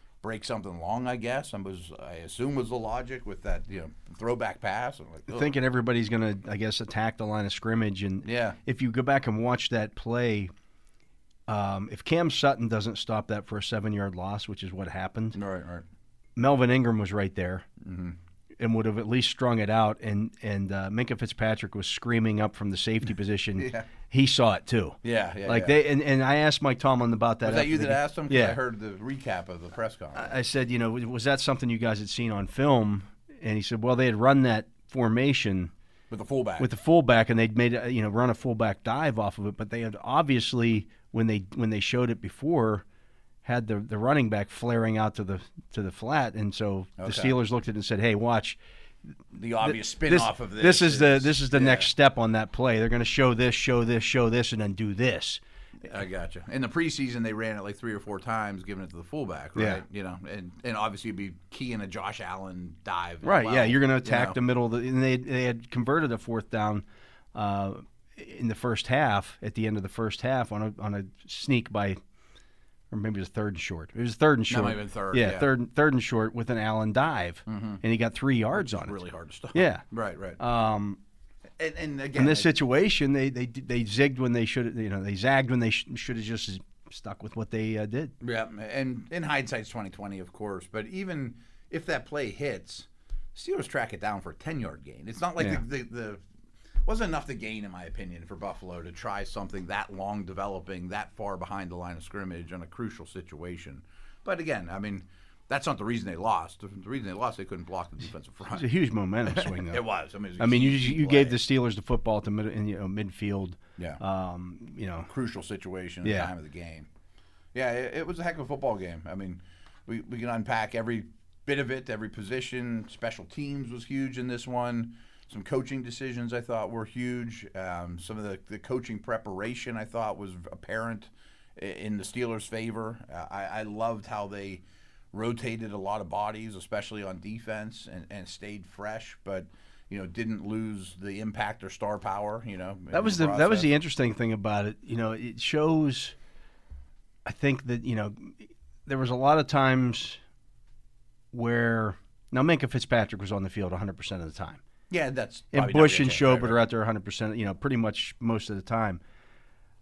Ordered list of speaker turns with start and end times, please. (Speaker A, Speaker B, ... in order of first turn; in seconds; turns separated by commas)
Speaker A: 0.2-5.5, Speaker B: 5.3-10.5, Speaker A: 8.2-8.6, Speaker B: 11.5-15.4, Speaker A: 15.3-15.8, Speaker B: 16.4-17.7, Speaker A: 17.8-18.2, Speaker B: 18.6-28.6, Speaker A: 23.6-23.9, Speaker A: 25.0-25.8, Speaker A: 27.4-30.3, Speaker B: 30.1-35.7, Speaker A: 36.1-36.7, Speaker B: 36.6-42.8, Speaker B: 43.4-48.6, Speaker A: 47.0-47.4, Speaker A: 49.3-51.9, Speaker B: 49.6-55.4, Speaker A: 55.8-64.4, Speaker B: 63.2-72.0, Speaker B: 72.9-79.0, Speaker A: 74.5-75.5, Speaker A: 77.5-77.8, Speaker A: 78.5-80.4, Speaker B: 79.5-79.8, Speaker B: 80.4-81.0, Speaker A: 81.6-82.5, Speaker B: 82.1-88.1, Speaker A: 88.2-96.2, Speaker A: 96.8-108.7, Speaker B: 108.5-109.8, Speaker A: 109.3-111.4, Speaker B: 110.4-115.1, Speaker A: 115.1-116.9, Speaker B: 116.0-116.3, Speaker A: 117.5-143.7, Speaker B: 142.9-146.1, Speaker B: 147.2-150.2, Speaker B: 151.3-154.6, Speaker A: 154.9-156.6, Speaker B: 155.5-159.0